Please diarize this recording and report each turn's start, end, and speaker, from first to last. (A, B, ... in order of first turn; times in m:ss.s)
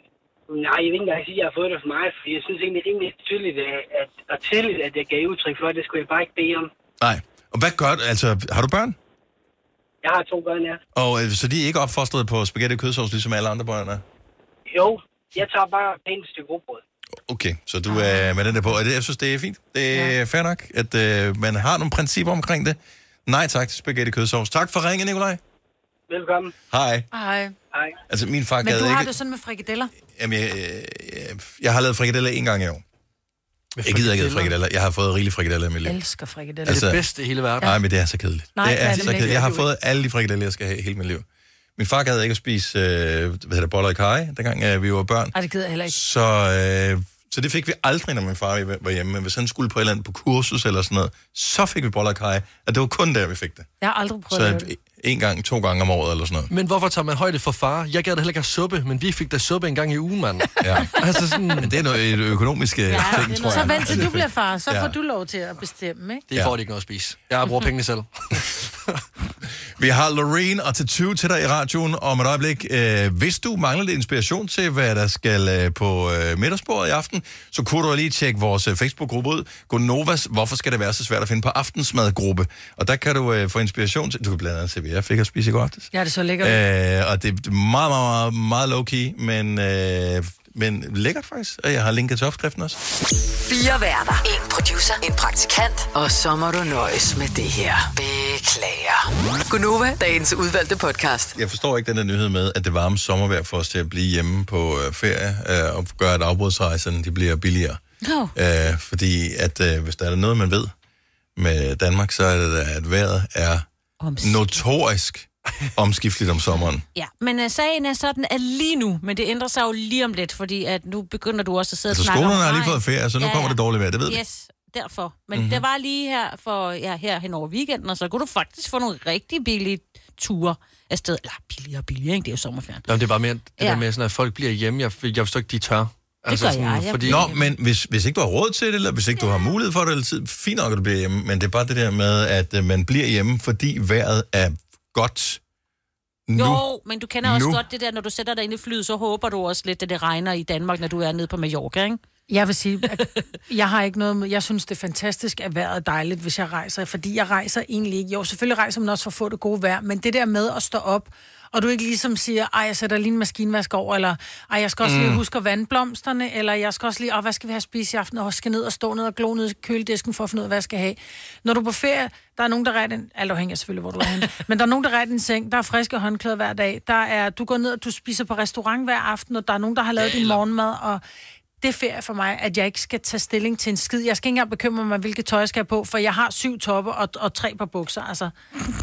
0:00.5-0:06.7 A
0:07.0-0:09.0 B
0:10.0-0:10.8 A
0:10.9-0:14.0 B
0:14.7-0:16.8 A
0:17.3-0:25.4 B
0:26.1-0:26.5 A
0:26.7-0:27.1 B
0:27.1-0:27.6 C
0:27.7-0:28.0 A
0:28.1-0:29.1 B
0:28.6-0:29.9 C
0:30.1-0:32.8 B
0:33.7-0:34.5 D
0:33.8-0:36.0 B
0:35.8-0:36.8 C
0:36.7-0:37.0 B
0:36.7-0:37.8 D
0:37.6-0:41.2 B
0:38.6-0:39.7 C
0:38.7-0:39.6 D
0:41.8-0:45.4 B
0:45.3-0:46.0 C
0:45.9-0:53.7 B
0:53.8-0:54.7 C
0:54.3-0:56.5 B
0:56.5-1:01.7 D
1:00.6-1:01.0 B
1:01.6-1:05.0 B
1:02.9-1:03.9 E
1:03.4-1:06.2 C
1:06.3-1:09.0 D
1:09.8-1:32.8 B
1:25.9-1:26.6 C
1:33.4-1:41.4 F
1:41.4-1:47.8 B
1:48.0-1:48.3 E
1:48.4-1:50.7 B
1:51.4-1:53.6 B
1:54.0-1:54.6 E
1:54.2-1:56.8 B
1:56.9-2:12.9 E
2:01.9-2:04.2 B
2:05.3-2:05.6 B
2:12.9-2:17.2 D
2:13.6-2:13.8 E
2:16.3-2:17.5 E
2:17.0-2:25.4 B
2:26.3-2:26.6 B
2:26.4-2:32.0 E
2:27.2-2:27.6 B
2:32.3-3:01.0 C
2:44.8-2:45.2 B
3:00.0-3:00.4 D
3:01.6-3:08.3 C